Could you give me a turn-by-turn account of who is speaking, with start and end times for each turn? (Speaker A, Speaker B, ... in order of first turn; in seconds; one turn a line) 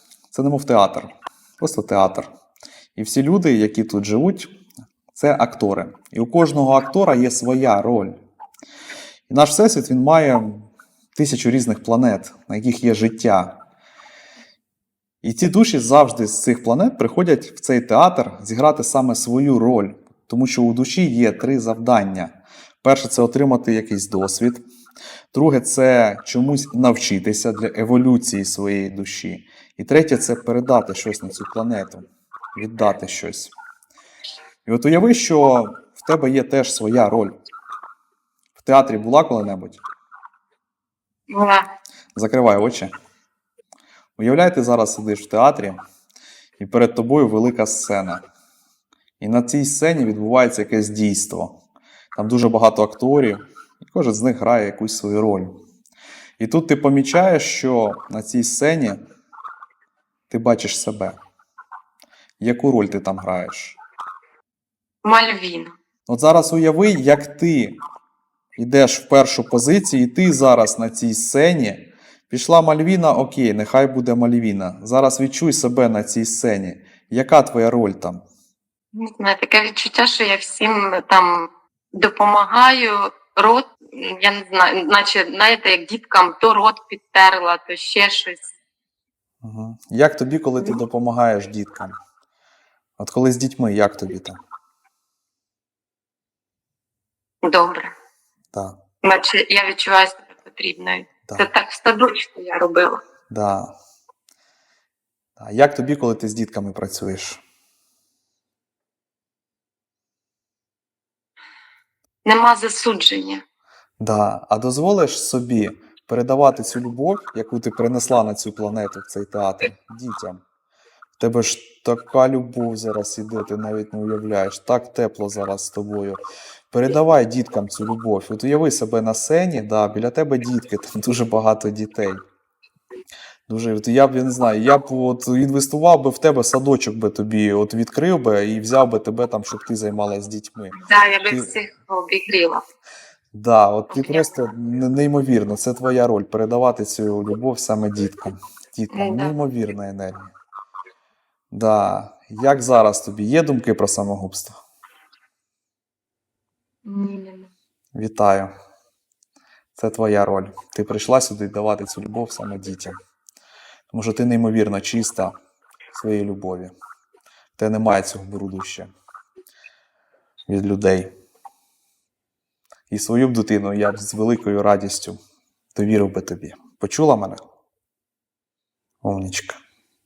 Speaker A: 0.3-2.3
Speaker A: 3.0-4.5
Speaker A: 5.1-8.2
Speaker A: 9.3-13.6
Speaker A: 15.2-24.6
Speaker A: 25.3-33.5
Speaker A: 34.6-37.3
Speaker A: 38.5-39.8
Speaker B: 41.3-41.6
Speaker A: 42.1-42.9
Speaker A: 44.2-45.8
Speaker A: 46.6-48.2
Speaker A: 49.2-51.6
Speaker A: 52.1-55.6
Speaker A: 56.4-59.0
Speaker A: 60.3-61.2
Speaker A: 62.4-63.8
Speaker B: 65.0-65.7
Speaker A: 66.1-67.8
Speaker A: 68.6-78.2
Speaker B: 78.9-88.5
Speaker A: 89.4-92.0
Speaker A: 93.0-94.4
Speaker B: 97.4-97.9
Speaker A: 98.5-98.8
Speaker B: 99.0-103.0
Speaker A: 103.3-103.7
Speaker A: 105.4-107.4
Speaker B: 112.2-113.4
Speaker A: 114.0-120.4
Speaker A: 121.2-132.2
Speaker A: 133.5-140.8
Speaker B: 140.7-142.6
Speaker A: 143.3-150.3
Speaker B: 143.9-144.3
Speaker B: 148.9-149.3
Speaker A: 151.5-154.6
Speaker B: 156.8-157.5
Speaker A: 157.9-158.5
Speaker A: 159.7-163.0
Speaker A: 163.9-165.3
Speaker A: 165.9-166.7
Speaker A: 167.6-168.9
Speaker A: 170.5-171.1
Speaker A: 172.9-175.2
Speaker A: 175.7-177.4
Speaker A: 179.0-179.6